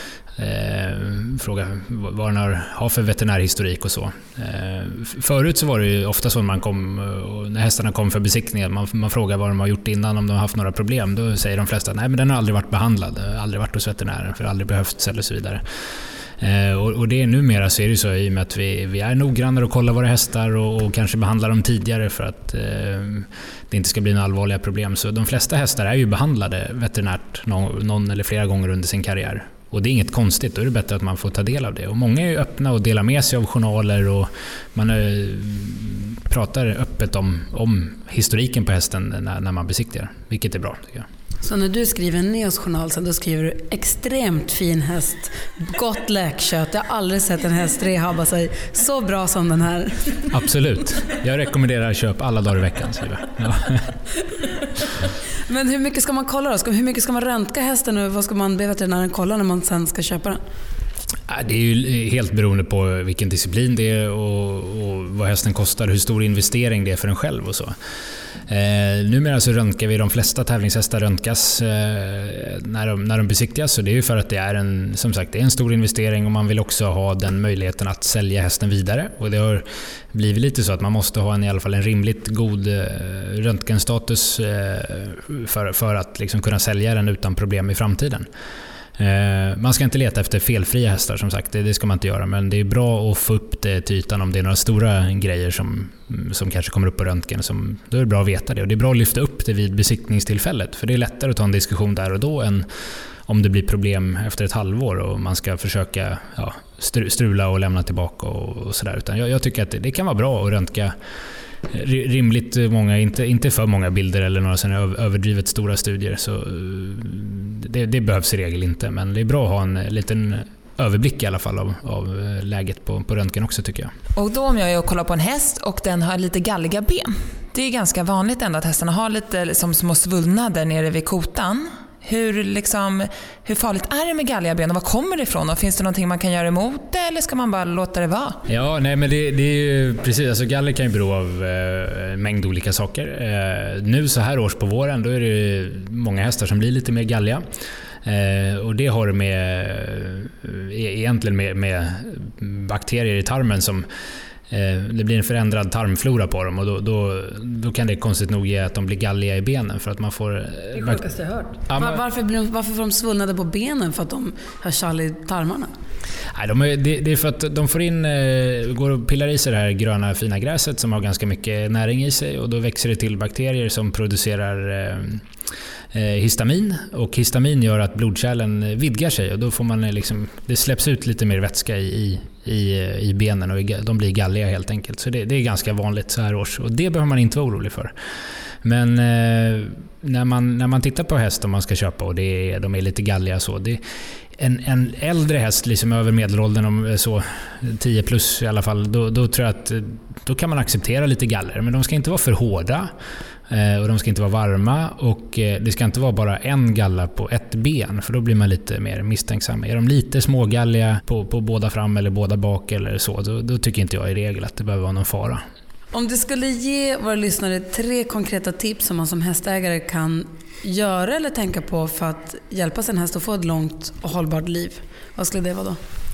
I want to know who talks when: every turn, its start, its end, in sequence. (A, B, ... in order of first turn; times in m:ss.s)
0:00.4-0:15.6 A
0:16.4-0:41.1 A
0:41.4-0:50.3 B
0:50.3-0:53.9 A
0:55.5-1:00.4 B
1:01.3-1:07.7 A
1:08.5-1:28.3 A
1:29.0-1:42.7 A
1:43.2-1:50.9 A
1:51.7-2:03.9 A
2:04.1-2:18.4 C
2:18.5-2:27.4 A
2:28.0-2:33.9 A
2:34.5-2:41.1 A
2:40.7-2:45.7 B
2:41.7-2:42.0 A
2:46.3-2:55.2 A
2:55.9-3:07.9 A
3:08.6-3:13.8 A
3:14.4-3:22.9 A
3:23.5-3:35.4 A
3:35.9-3:45.8 B